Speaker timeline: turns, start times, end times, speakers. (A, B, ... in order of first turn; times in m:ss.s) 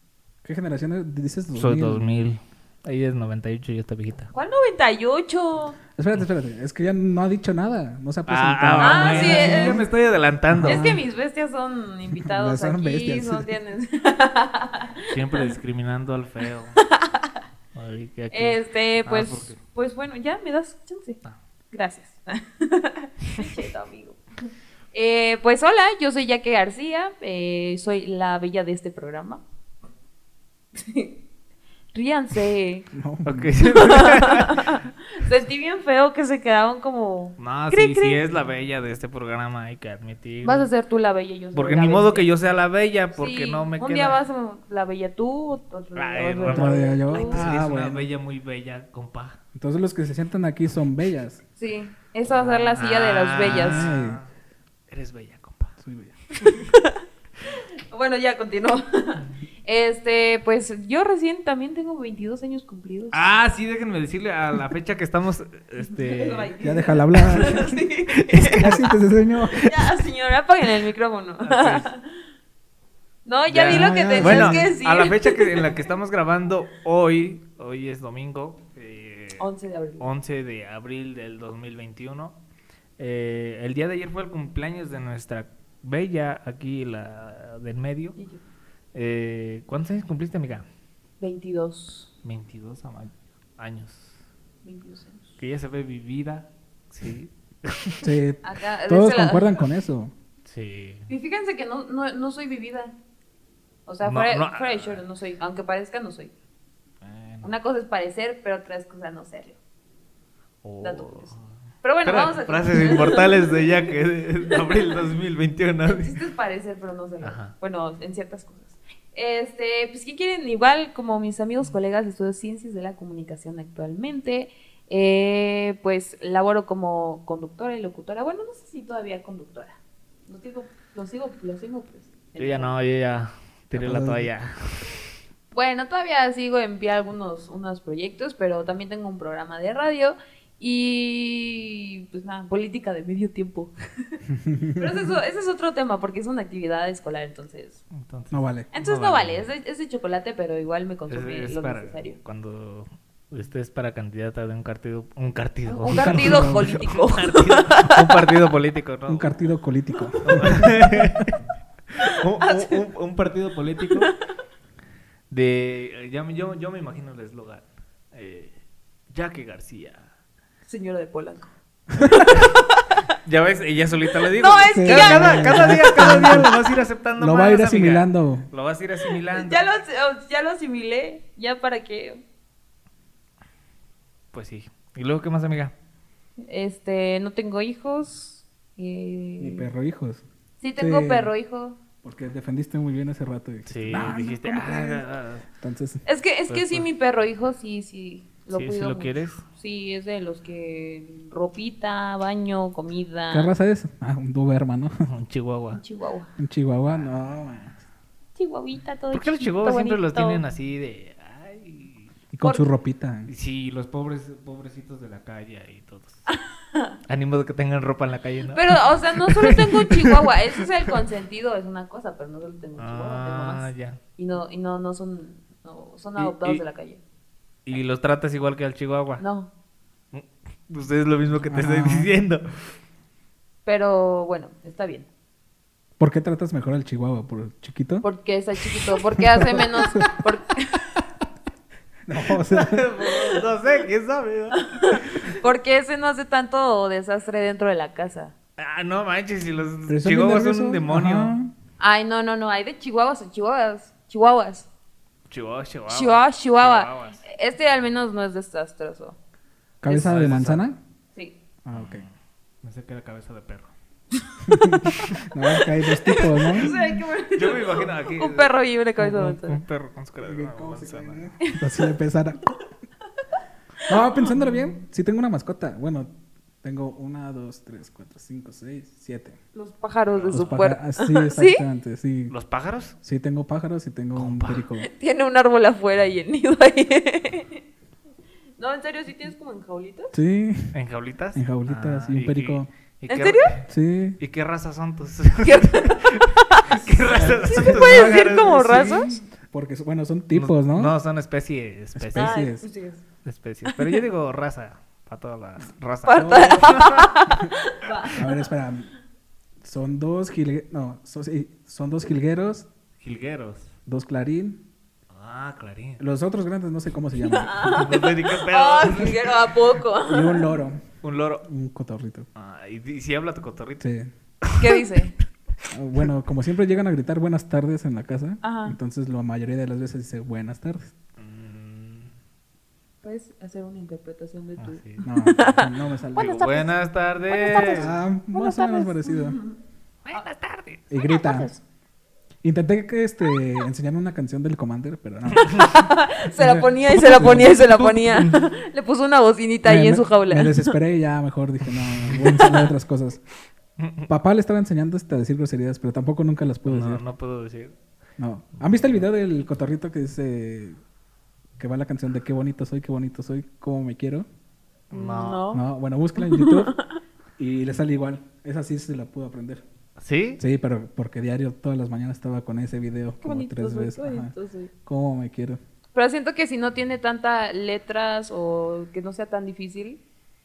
0:00.4-0:02.1 A
0:01.6-0:04.3 B
0:04.3-0:05.8 C
0:06.0-0:09.9 A
0:08.3-0:10.9 B
0:08.8-0:09.9 C
0:10.5-0:11.0 A
0:10.6-0:15.6 C
0:12.2-0:13.5 A
0:15.1-0:16.8 B
0:16.8-0:17.4 C
0:17.7-0:19.6 B
0:18.3-0:21.2 C
0:21.7-0:24.2 C
0:24.9-0:29.4 C
0:30.8-0:31.2 C
0:31.9-0:32.9 C
0:32.9-0:33.6 A
0:33.2-0:34.8 B
0:33.6-0:38.2 C
0:37.4-0:40.7 B
0:40.4-0:42.3 C
0:41.5-0:44.2 B
0:43.2-0:47.4 C
0:46.0-0:49.4 B
0:46.4-0:48.1 A
0:49.6-0:51.4 A
0:51.6-0:53.9 C
0:52.5-0:54.3 B
0:53.4-0:54.2 A
0:54.9-0:55.7 B
0:55.8-0:56.2 A
0:56.4-0:56.7 B
0:56.7-0:57.0 C
0:57.9-1:03.3 C
1:03.1-1:06.5 B
1:05.9-1:08.8 C
1:06.6-1:07.8 A
1:08.3-1:08.8 B
1:08.3-1:09.8 A
1:09.6-1:12.1 C
1:11.4-1:11.9 B
1:13.2-1:15.9 C
1:13.5-1:19.5 B
1:13.6-1:14.7 A
1:19.4-1:20.1 C
1:20.0-1:22.4 B
1:23.0-1:28.2 B
1:28.2-1:28.4 C
1:28.9-1:30.7 B
1:31.2-1:32.1 C
1:32.2-1:34.2 B
1:34.6-1:35.4 C
1:35.4-1:38.1 B
1:38.0-1:40.1 A
1:38.4-1:39.6 C
1:40.4-1:41.1 B
1:41.1-1:43.0 C
1:43.9-1:46.3 C
1:44.0-1:45.0 B
1:47.0-1:47.5 B
1:47.4-1:49.6 C
1:50.6-1:51.4 B
1:50.8-1:53.9 C
1:52.0-1:56.2 B
1:54.5-1:55.0 C
1:55.8-2:12.7 C
1:57.2-1:57.5 B
2:12.4-2:15.0 B
2:13.7-2:14.3 A
2:15.5-2:24.2 C
2:24.3-2:24.9 A
2:24.8-2:27.8 C
2:27.9-2:29.5 B
2:28.3-2:28.7 A
2:28.7-2:32.2 C
2:31.1-2:39.4 B
2:35.7-2:38.2 C
2:35.9-2:36.8 A
2:39.1-2:41.3 A
2:40.2-2:41.4 B
2:42.0-2:44.1 B
2:42.0-2:42.8 C
2:45.3-2:48.5 B
2:49.1-2:50.0 B
2:50.7-2:53.0 C
2:52.0-2:52.3 A
2:53.2-2:59.6 B
2:54.3-2:56.8 C
2:54.7-2:56.6 A
2:57.2-2:58.5 A
2:59.1-3:02.2 C
3:04.3-3:05.7 B
3:06.4-3:09.7 C
3:09.4-3:10.2 A
3:10.6-3:11.8 C
3:10.8-3:11.3 A
3:12.0-3:15.1 A
3:13.7-3:15.5 B
3:15.6-3:16.0 A
3:16.0-3:23.5 C
3:16.5-3:16.9 B
3:18.5-3:19.4 B
3:23.3-3:24.9 A
3:25.1-3:25.8 B
3:25.7-3:26.3 C
3:26.4-3:27.8 A
3:28.4-3:30.4 C
3:29.1-3:32.1 B
3:32.3-3:33.3 A
3:32.4-3:32.7 C
3:33.3-3:36.3 B
3:36.3-3:37.0 C
3:37.1-3:40.9 B
3:38.5-3:47.0 C
3:42.8-3:44.0 B
3:46.2-3:46.6 B
3:47.7-3:49.2 B
3:49.2-3:49.5 C
3:50.1-3:52.4 B
3:51.5-3:52.1 A
3:53.6-3:55.1 C
3:56.0-3:58.0 A
3:58.0-4:00.9 C
3:59.2-4:00.1 A
4:02.1-4:02.9 A
4:02.3-4:05.4 B
4:04.5-4:08.3 C
4:08.6-4:11.4 B
4:09.9-4:11.5 A
4:11.8-4:14.7 C
4:15.3-4:17.2 B
4:15.9-4:19.2 C
4:19.8-4:20.8 A
4:19.8-4:20.7 B
4:21.6-4:22.0 A
4:21.7-4:22.1 B
4:22.6-4:23.7 B
4:24.1-4:25.1 C
4:24.4-4:26.8 A
4:25.6-4:29.6 C
4:27.3-4:31.3 B
4:30.2-4:32.5 A
4:31.4-4:31.9 C
4:33.9-4:36.1 A
4:34.2-4:34.5 C
4:36.6-4:39.4 A
4:39.6-4:41.6 C
4:40.2-4:40.6 B
4:40.3-4:42.3 A
4:42.3-4:43.0 B
4:43.0-4:44.9 A
4:44.2-4:44.7 B
4:44.8-4:47.6 C
4:48.6-4:50.1 C
4:50.1-4:50.8 A
4:50.7-4:53.7 B
4:51.4-4:52.7 A
4:53.1-4:53.5 C
4:53.7-4:54.2 A
4:54.2-4:59.0 B
4:55.4-4:56.9 C
4:57.1-5:01.0 A
4:57.4-4:59.2 C
5:00.3-5:02.4 B
5:02.0-5:02.7 A
5:02.2-5:03.0 C
5:03.2-5:07.2 B
5:03.7-5:04.0 C
5:06.0-5:08.5 C
5:06.2-5:06.8 A
5:08.1-5:08.9 A
5:09.6-5:12.7 A
5:13.0-5:13.7 B
5:13.9-5:14.6 A
5:15.1-5:16.0 B
5:16.0-5:17.8 A
5:17.2-5:20.6 C
5:17.6-5:19.4 B
5:20.1-5:20.8 A
5:21.0-5:21.4 B
5:21.4-5:22.3 A
5:22.4-5:23.8 B
5:23.8-5:24.1 A
5:24.4-5:24.8 B
5:24.6-5:25.2 C
5:25.7-5:30.9 A
5:28.4-5:28.8 C
5:31.2-5:32.1 B
5:33.0-5:36.7 C
5:34.6-5:35.0 B
5:35.0-5:36.4 A
5:36.2-5:37.9 B
5:37.3-5:39.6 C
5:37.6-5:39.4 A
5:40.0-5:40.9 B
5:40.9-5:41.5 A
5:41.0-5:41.6 C
5:42.4-5:47.6 A
5:45.4-5:45.7 B
5:45.4-5:50.7 C
5:47.8-5:48.4 B
5:49.6-5:53.2 A
5:52.0-5:52.5 B
5:53.8-5:54.1 B
5:54.1-5:57.0 A
5:56.7-5:57.7 B
5:58.2-6:00.8 A
6:01.6-6:04.3 A
6:04.9-6:05.5 B
6:04.9-6:05.6 C
6:05.5-6:06.7 A
6:06.2-6:07.0 C
6:07.4-6:09.6 A
6:10.0-6:10.4 B
6:10.4-6:14.3 A
6:13.2-6:14.7 C
6:14.8-6:15.6 A
6:15.9-6:20.0 C